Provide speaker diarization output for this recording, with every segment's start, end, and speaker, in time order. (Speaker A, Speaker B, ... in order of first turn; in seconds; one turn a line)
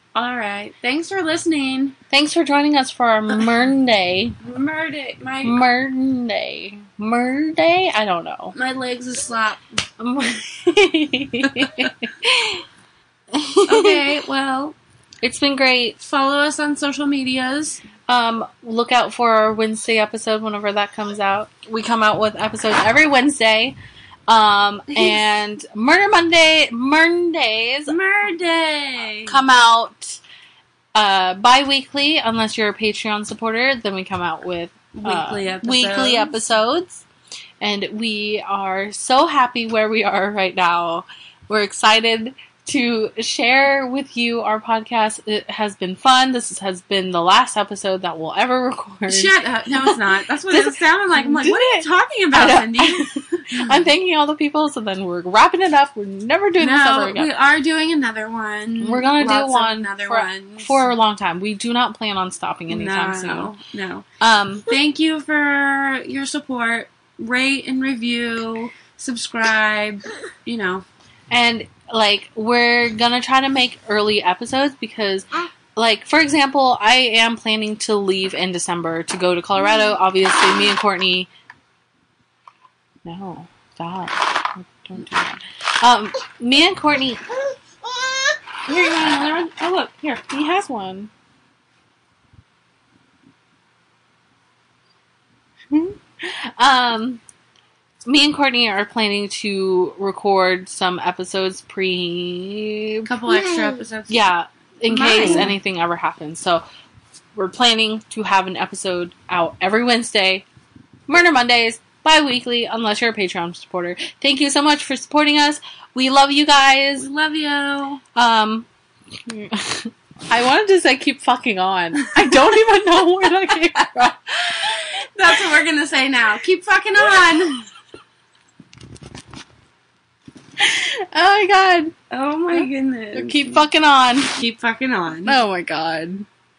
Speaker A: 0.1-1.9
Speaker B: 2.1-4.4
Speaker A: 4.4-5.6
Speaker B: 5.4-8.5
Speaker A: 8.5-9.6
Speaker B: 10.0-12.6
Speaker A: 11.6-11.9
Speaker B: 13.3-14.2
Speaker A: 13.7-14.8
Speaker B: 15.2-16.0
Speaker A: 16.0-17.8
Speaker B: 18.1-23.8
Speaker B: 24.3-27.9
Speaker A: 24.9-25.2
Speaker A: 27.9-29.4
Speaker B: 29.2-30.2
Speaker B: 30.9-37.0
Speaker A: 34.9-36.4
Speaker B: 37.6-50.0
Speaker A: 49.1-53.8
Speaker B: 50.5-57.3
Speaker A: 56.6-60.9
Speaker B: 58.8-63.5
Speaker A: 62.7-64.0
Speaker B: 64.2-64.7
Speaker A: 64.7-70.8
Speaker B: 71.3-81.3
Speaker B: 83.0-87.2
Speaker A: 88.1-90.2
Speaker B: 90.2-91.1
Speaker B: 95.7-97.2
Speaker B: 98.0-106.6
Speaker A: 103.0-104.2
Speaker A: 104.9-105.5
Speaker B: 107.3-110.4
Speaker B: 111.1-117.1
Speaker A: 117.0-118.0
Speaker B: 118.1-118.7
Speaker B: 119.2-124.9
Speaker A: 124.6-127.7
Speaker B: 127.1-127.5
Speaker B: 130.6-131.9
Speaker A: 132.1-133.6
Speaker B: 132.5-134.3
Speaker A: 134.3-135.4
Speaker B: 135.2-136.3